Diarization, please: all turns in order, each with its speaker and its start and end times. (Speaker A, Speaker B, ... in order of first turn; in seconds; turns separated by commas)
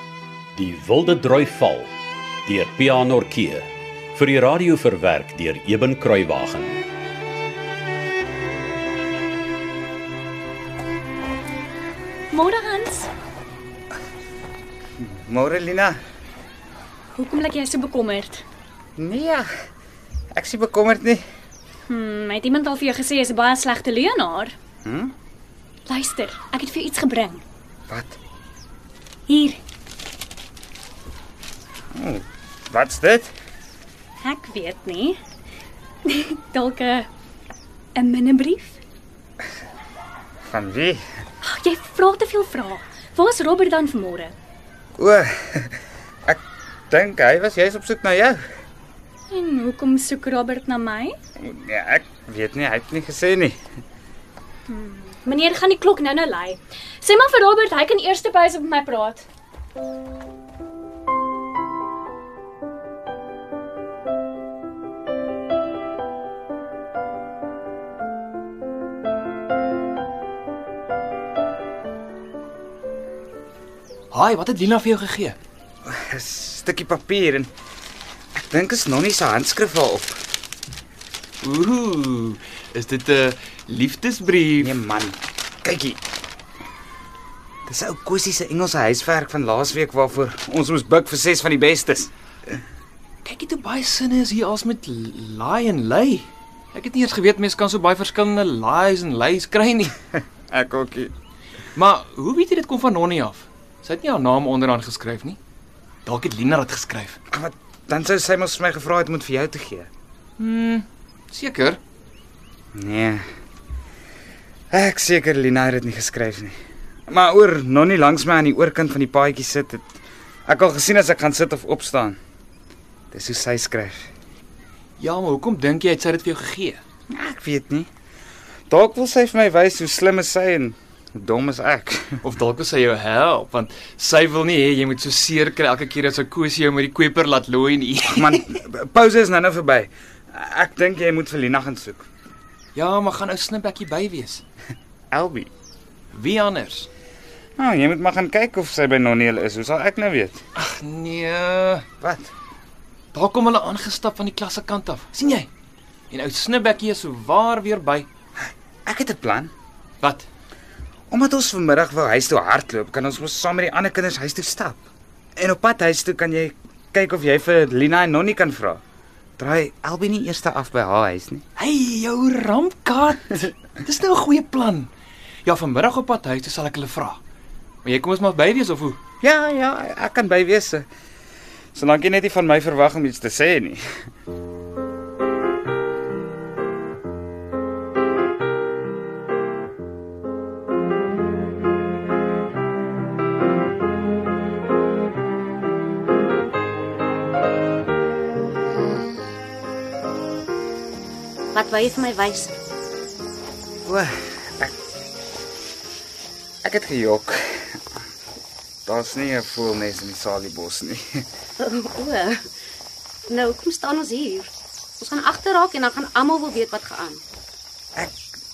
Speaker A: 0.6-1.9, Speaker A: 2.5-6.8, Speaker B: 12.3-13.1, Speaker C: 15.0-15.9, Speaker B: 17.1-18.4, Speaker C: 19.0-19.4, Speaker C: 20.3-21.2, Speaker B: 21.9-24.5, Speaker C: 24.8-25.1, Speaker B: 25.9-27.4, Speaker C: 27.9-28.2, Speaker B: 29.3-29.6, Speaker C: 31.9-33.3, Speaker B: 34.2-35.2, Speaker B: 36.0-37.1, Speaker B: 38.0-38.8, Speaker C: 40.5-41.0, Speaker B: 41.4-44.3, Speaker C: 45.0-46.4, Speaker C: 46.9-48.4, Speaker B: 49.3-51.2, Speaker C: 51.4-53.6, Speaker B: 54.7-59.2, Speaker D: 74.1-75.4, Speaker C: 75.9-77.5, Speaker C: 78.4-80.2, Speaker D: 81.4-84.7, Speaker C: 84.6-86.0, Speaker C: 87.7-92.1, Speaker D: 93.2-100.0, Speaker C: 100.5-101.1, Speaker D: 101.8-105.4, Speaker D: 106.1-107.2, Speaker C: 107.3-109.9, Speaker D: 110.4-111.8, Speaker C: 112.8-113.2, Speaker C: 114.7-116.5, Speaker C: 117.1-119.8, Speaker C: 120.5-122.2, Speaker C: 123.1-124.1, Speaker D: 125.0-126.8, Speaker C: 127.1-127.9, Speaker C: 128.7-132.2, Speaker D: 132.2-138.4, Speaker C: 138.1-142.1, Speaker D: 142.8-144.4, Speaker C: 145.1-145.5, Speaker D: 146.1-146.9, Speaker C: 147.6-150.4, Speaker D: 150.6-151.8, Speaker C: 152.0-152.3, Speaker D: 153.1-155.5, Speaker D: 156.1-158.1, Speaker C: 158.8-159.5, Speaker D: 160.0-160.3, Speaker C: 161.1-164.8, Speaker C: 165.4-168.8, Speaker C: 169.4-171.4, Speaker D: 171.6-174.9, Speaker D: 175.4-177.2, Speaker D: 177.8-179.0, Speaker C: 179.2-180.9, Speaker C: 181.7-183.8, Speaker E: 201.5-202.6, Speaker C: 203.8-204.7, Speaker C: 206.6-207.8, Speaker C: 208.8-211.2, Speaker E: 211.6-212.4, Speaker E: 213.3-217.2